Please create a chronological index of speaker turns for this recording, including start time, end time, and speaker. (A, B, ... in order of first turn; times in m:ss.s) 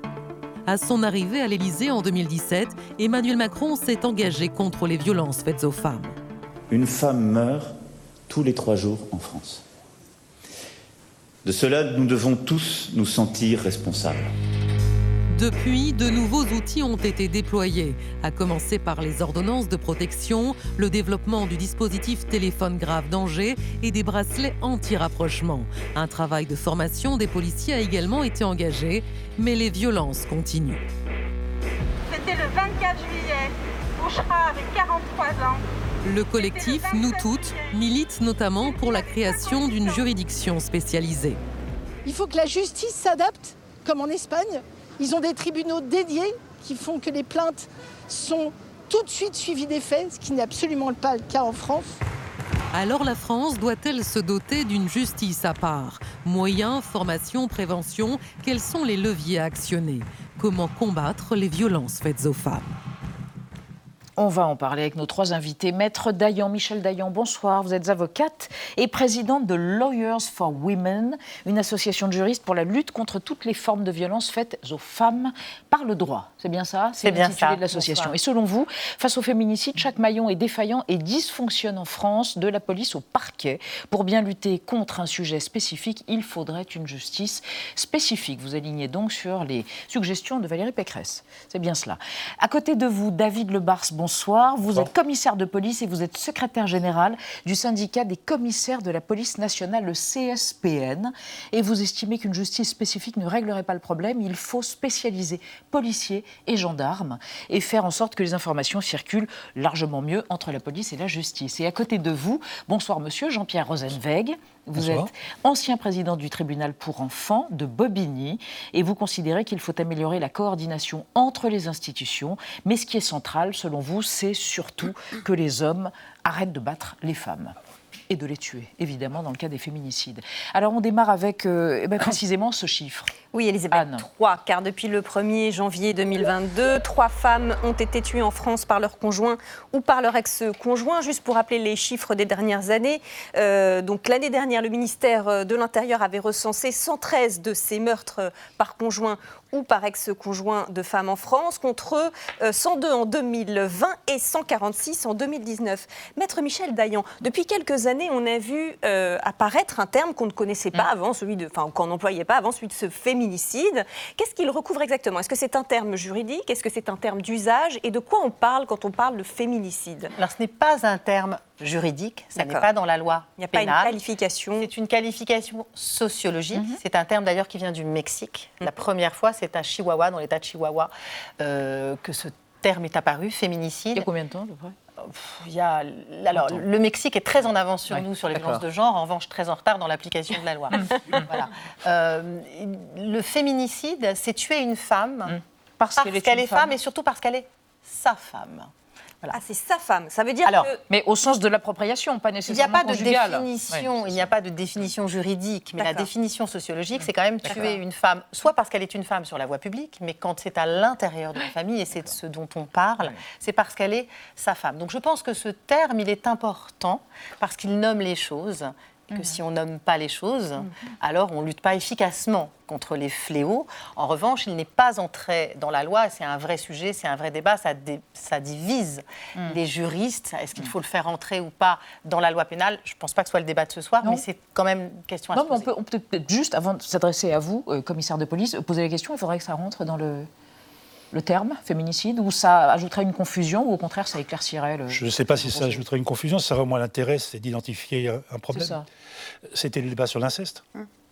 0:00.6-0:06.2 A
0:06.7-0:07.8 B
0:08.3-0:09.6 B
0:11.4-0:14.3 B
0:15.3-0:30.8 A
0:32.1-0:35.6 C
0:36.0-0:41.4 A
0:42.0-0:52.0 D
0:52.7-1:02.6 A
1:04.2-2:07.6 E
1:17.0-1:18.1 F
1:54.8-1:55.1 G
2:08.1-2:13.1 E
2:13.3-2:50.1 H
2:13.7-2:14.0 E
2:50.2-2:54.0 F
2:52.4-2:52.7 H
2:53.4-2:54.7 H
2:54.6-3:04.1 F
2:56.5-2:56.8 E
3:03.9-3:04.7 E
3:05.0-3:15.4 F
3:07.9-3:08.6 E
3:15.8-3:16.7 E
3:16.0-3:18.7 F
3:19.3-3:20.8 H
3:20.4-3:20.7 F
3:20.9-3:24.1 E
3:22.5-3:55.7 F
3:25.8-3:26.1 H
3:27.4-3:27.8 E
3:55.3-4:00.3 E
4:01.1-4:05.8 E
4:04.9-4:08.8 G
4:08.5-4:08.8 E
4:09.5-4:10.6 G